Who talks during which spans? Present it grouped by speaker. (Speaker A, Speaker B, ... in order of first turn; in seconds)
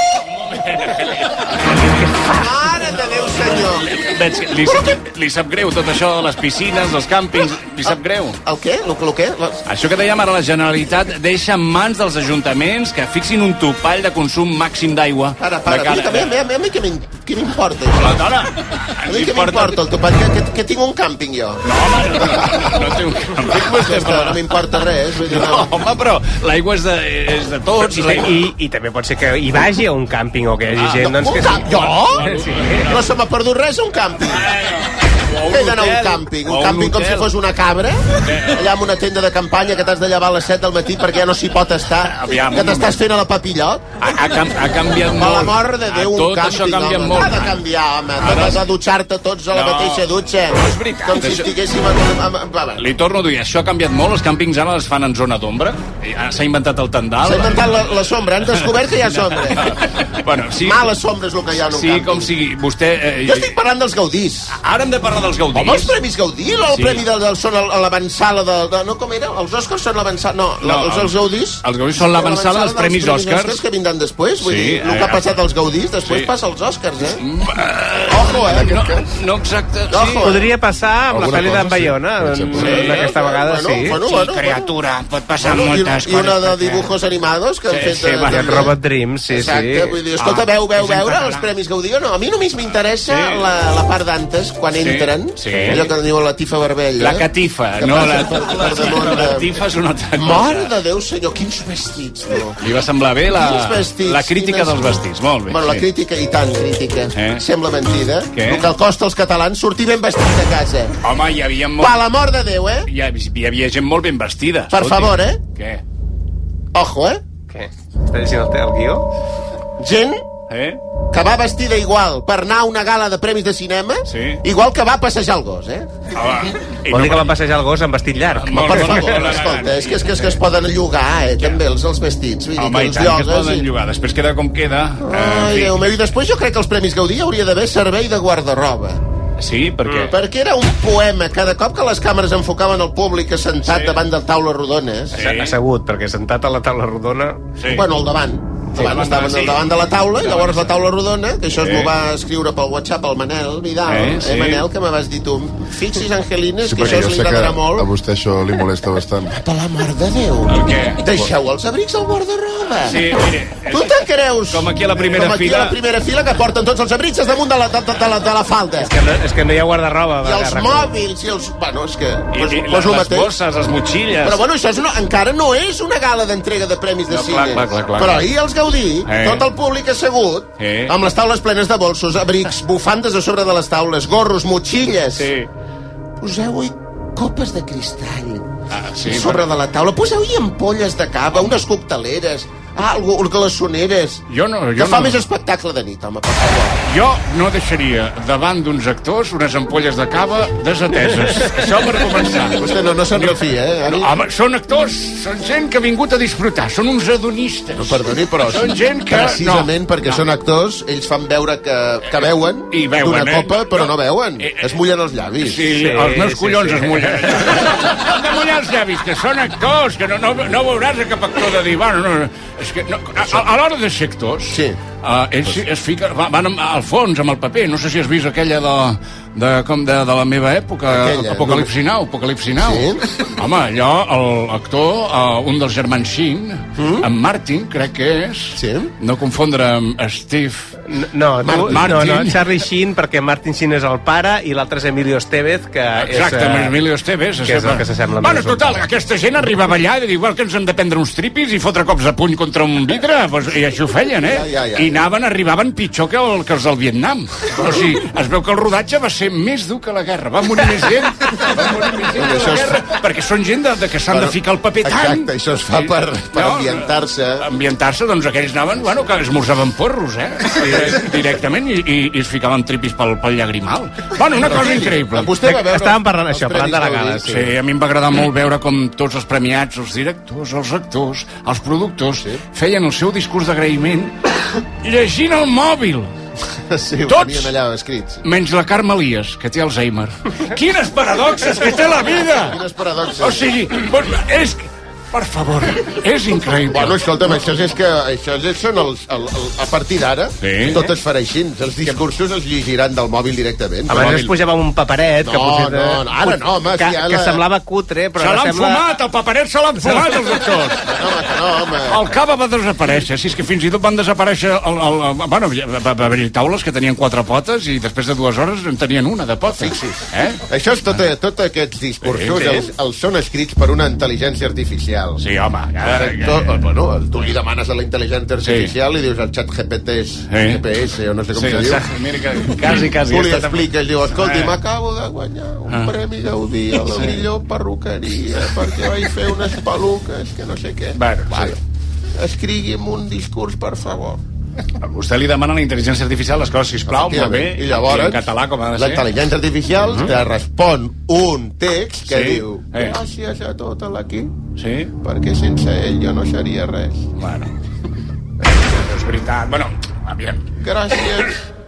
Speaker A: 0.5-2.1, 3.5-8.4, 9.7-16.3, 17.9-19.8, 21.6-24.4, 25.3-28.5, 30.7-33.1, 34.3-37.3, 38.2-38.7, 42.0-43.0, 44.0-47.6, 48.2-48.6, 49.5-51.5, 52.8-57.8, 58.4-60.9, 61.7-63.6, 64.5-65.9, 66.7-67.0, 70.6-73.6, 74.4-75.2, 76.0-76.3, 77.2-80.3, 82.6-83.1, 87.7-88.7, 93.1-93.5, 94.8-95.9, 97.0-100.7, 102.6-105.9, 107.1-107.4, 108.3-108.7, 111.0-112.0, 112.9-115.8, 120.5-120.8, 124.1-124.4, 126.1-127.3, 128.3-130.4, 132.6-135.9, 139.4-140.1, 143.6-144.0, 145.1-145.5, 147.6-147.8, 148.7-150.9, 151.5-151.9, 153.9-154.7, 160.5-161.1, 162.8-165.8, 172.3-174.4, 177.1-178.3, 179.1-179.5, 180.6-180.9, 185.2-185.5, 188.7-189.4, 194.3-195.2, 196.8-210.2, 212.0-214.8, 215.4-240.7, 241.5-242.4, 246.0-275.4, 277.2-284.1, 284.8-286.1, 287.1-287.5, 288.2-292.6, 293.2-297.0, 300.4-300.9, 303.9-304.3, 308.2-310.8, 311.9-321.0, 322.0-322.6, 325.2-326.6, 328.4-328.7, 330.3-330.6, 331.3-334.5, 335.7-335.9, 336.7-337.2, 340.9-341.6, 344.8-349.1, 352.1-353.0, 354.6-354.9, 357.2-357.5, 359.0-360.4
Speaker B: 2.3-3.9, 4.7-4.9, 8.4-9.6, 15.4-18.2, 19.1-21.6, 22.2-22.7, 23.5-25.7, 31.2-32.2, 32.8-34.5, 35.5-43.8, 45.2-52.8, 57.2-59.7, 60.6-62.3, 63.2-64.5, 65.5-77.2, 78.1-78.7, 79.9-80.5, 82.6-84.7, 85.4-88.7, 89.3-97.2, 97.8-99.5, 100.2-102.6, 103.3-105.0, 105.5-110.9, 111.8-112.9, 114.7-115.4, 116.7-117.2, 119.8-120.2, 121.1-125.9, 128.5-133.7, 135.0-139.0, 140.1-145.2, 147.7-157.9, 159.3-163.0, 163.7-168.9, 170.2-173.3, 174.2-185.3, 186.2-188.5, 189.0-194.2, 194.8-196.8, 202.6-204.1, 207.8-215.7, 224.5-224.8, 230.9-231.7, 232.6-233.1, 238.6-238.9, 241.4-241.9, 254.2-254.9, 262.1-262.8, 264.1-267.4, 274.3-277.4, 286.7-288.2, 292.4-293.4, 296.7-304.2, 305.2-307.4, 310.9-312.0, 319.5-325.2, 325.8-331.8, 332.8-341.6, 342.1-344.2, 346.9-348.2, 348.8-354.3, 355.0-357.1, 358.4-358.9, 360.6-361.4
Speaker C: 27.9-31.7, 32.3-32.8, 80.2-84.0, 88.2-90.0, 117.5-119.0, 126.9-129.1, 145.2-147.4, 168.8-170.9, 215.8-217.3, 240.9-246.8, 247.4-248.8, 275.4-277.3, 303.9-308.8
Speaker D: 78.4-79.0, 81.1-82.7, 156.6-159.4
Speaker E: 84.0-86.9, 90.2-91.5